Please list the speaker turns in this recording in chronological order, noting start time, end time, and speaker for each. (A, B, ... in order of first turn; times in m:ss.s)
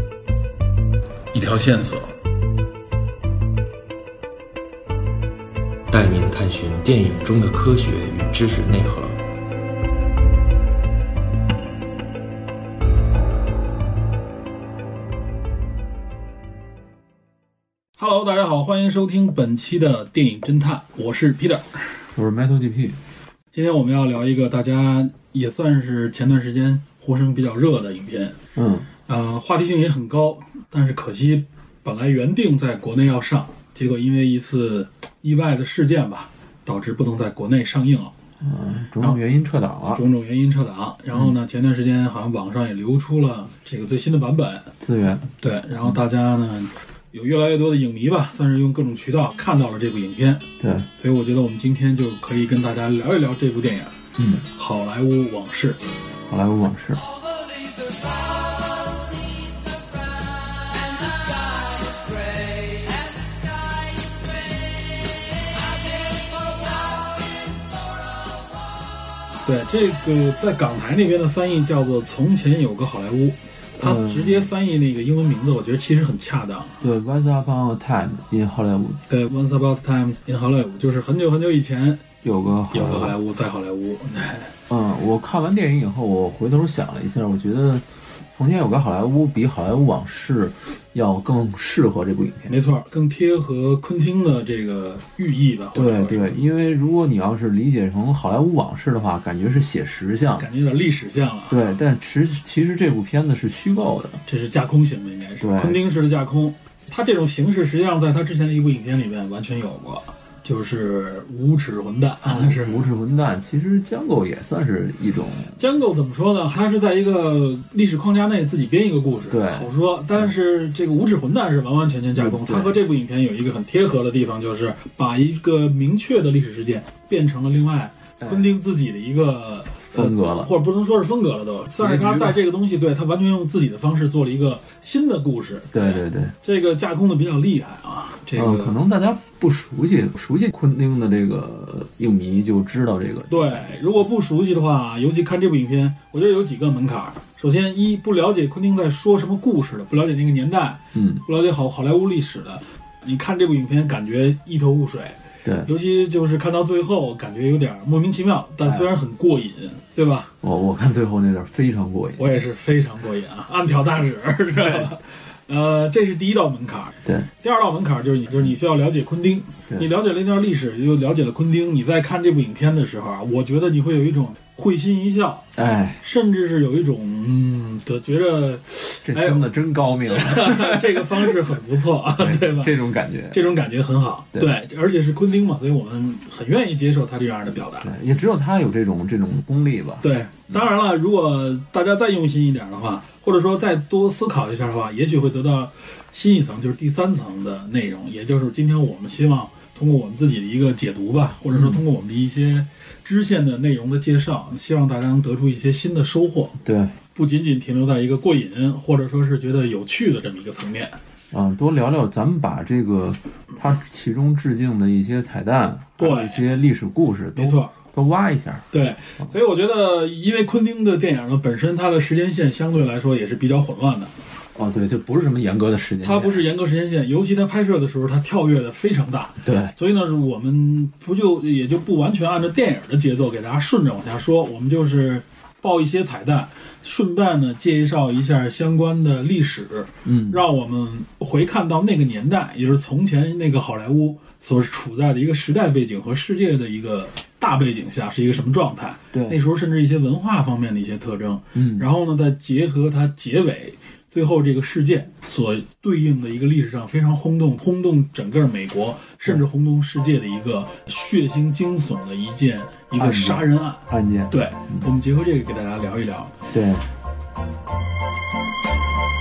0:01.3-0:02.1 A
0:05.9-0:09.2 B
0:18.0-0:21.8 A
0:22.2-0:23.0 C
0:23.5-0:28.4 A
0:28.6-0:28.9 C
0:29.1-0:38.1 A
0:38.4-0:40.0 C
0:39.9-0:44.7 A
0:44.8-0:45.3 C
0:45.4-0:54.0 A
0:50.6-0:50.9 C
0:54.2-0:54.4 C
0:54.5-0:55.8 A
0:56.3-0:57.0 C
0:57.0-1:08.9 B
1:09.5-1:16.8 A
1:13.8-1:14.5 C
1:16.8-1:19.0 C
1:19.1-1:22.1 A
1:22.2-1:23.2 C
1:22.7-1:24.5 A
1:24.7-1:32.5 C
1:32.5-1:36.4 A
1:35.8-1:40.5 C
1:40.4-1:41.6 A
1:41.5-1:44.2 C
1:44.3-1:52.9 A
1:45.4-1:45.8 C
1:52.2-1:55.6 C
1:55.6-2:18.8 A
1:59.3-1:59.7 C
2:02.2-2:02.8 C
2:08.2-2:08.5 C
2:09.9-2:10.5 C
2:11.7-2:12.4 C
2:15.7-2:16.4 C
2:18.4-2:23.8 C
2:23.3-2:40.3 A
2:30.9-2:31.2 C
2:40.4-2:42.4 C
2:42.2-2:55.5 A
2:44.6-2:44.9 C
2:55.6-2:56.0 C
2:56.0-3:07.9 A
2:59.0-3:01.4 C
3:02.2-3:03.4 C
3:07.8-3:10.6 C
3:10.0-3:26.6 A
3:21.5-3:21.8 C
3:26.6-3:27.0 C
3:27.2-3:31.0 A
3:31.3-3:38.7 C
3:36.0-3:36.4 A
3:37.4-3:37.7 A
3:38.7-3:44.1 A
3:44.6-3:46.5 C
3:46.0-4:26.3 A
3:49.4-3:49.7 C
4:00.0-4:00.4 C
4:09.1-4:09.4 C
4:11.6-4:11.9 C
4:23.0-4:24.9 C
4:26.5-4:26.8 C